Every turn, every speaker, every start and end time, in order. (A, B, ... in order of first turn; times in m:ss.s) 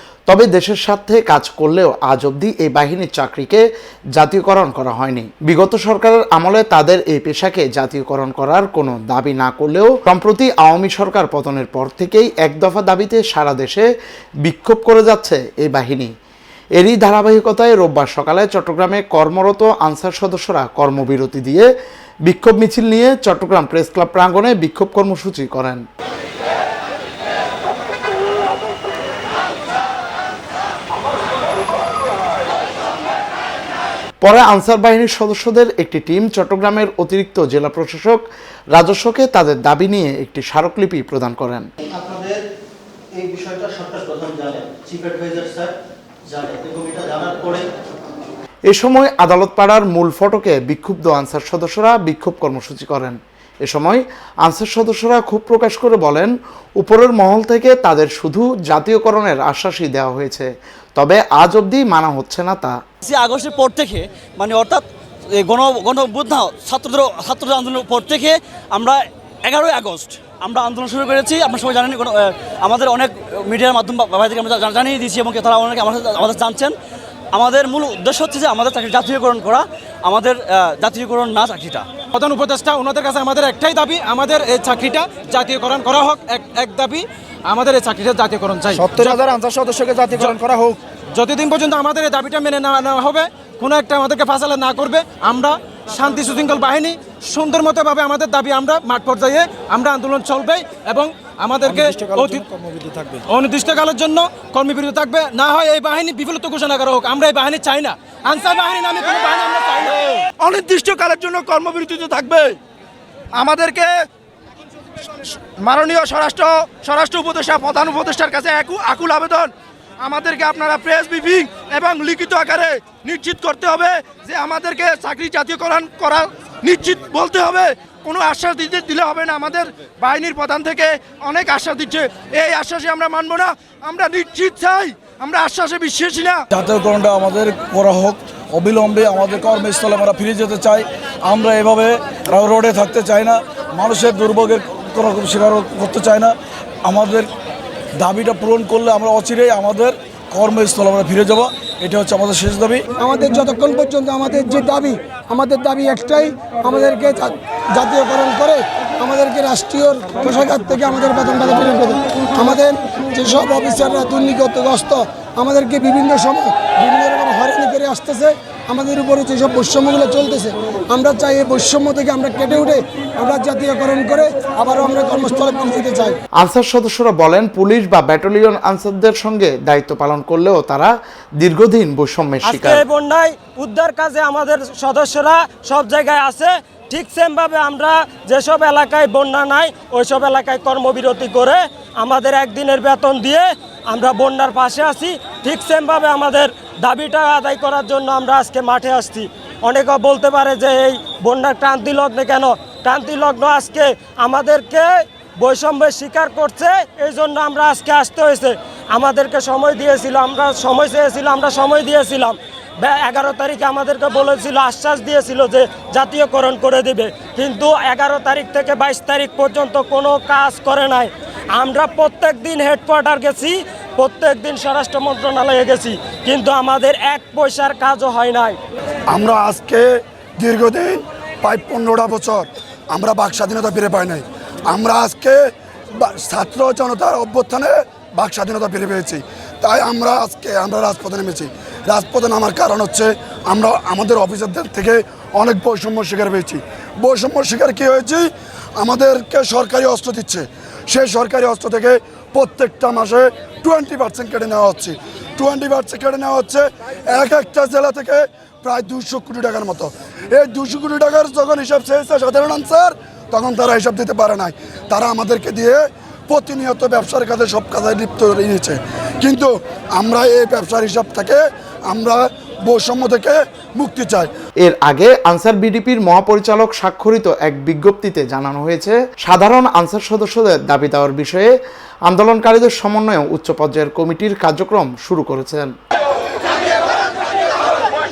0:00.3-0:03.6 A
0:04.2-0:13.9 A
0:14.4-0:16.1 A
0:16.8-0:21.7 A
0:22.2-0:25.8 A
0:34.2-0:38.2 A
0:38.7-0:41.7 A
0:42.0-0:42.4 B
0:43.2-0:45.7 B
0:43.9-0:44.2 C
0:46.3-0:47.6 C
0:46.4-0:47.6 B
0:48.7-1:02.8 A
1:03.0-1:04.8 C
1:05.4-1:16.8 C
1:17.3-1:21.9 C
1:22.1-1:29.2 D
1:28.9-1:30.8 E
1:31.1-1:42.4 D
1:42.6-1:43.0 E
1:43.3-1:50.0 D
1:50.4-1:52.6 E
1:53.4-1:53.9 E
1:55.6-1:59.5 E
2:00.0-2:16.4 E
2:16.5-2:27.3 F
2:28.0-2:32.9 F
2:33.0-2:56.2 G
2:56.4-3:02.8 A
3:02.4-3:48.6 H
3:49.1-3:49.9 I
3:50.4-3:55.4 I
3:56.0-4:34.3 I
4:34.6-4:41.5 A
4:42.1-4:45.7 A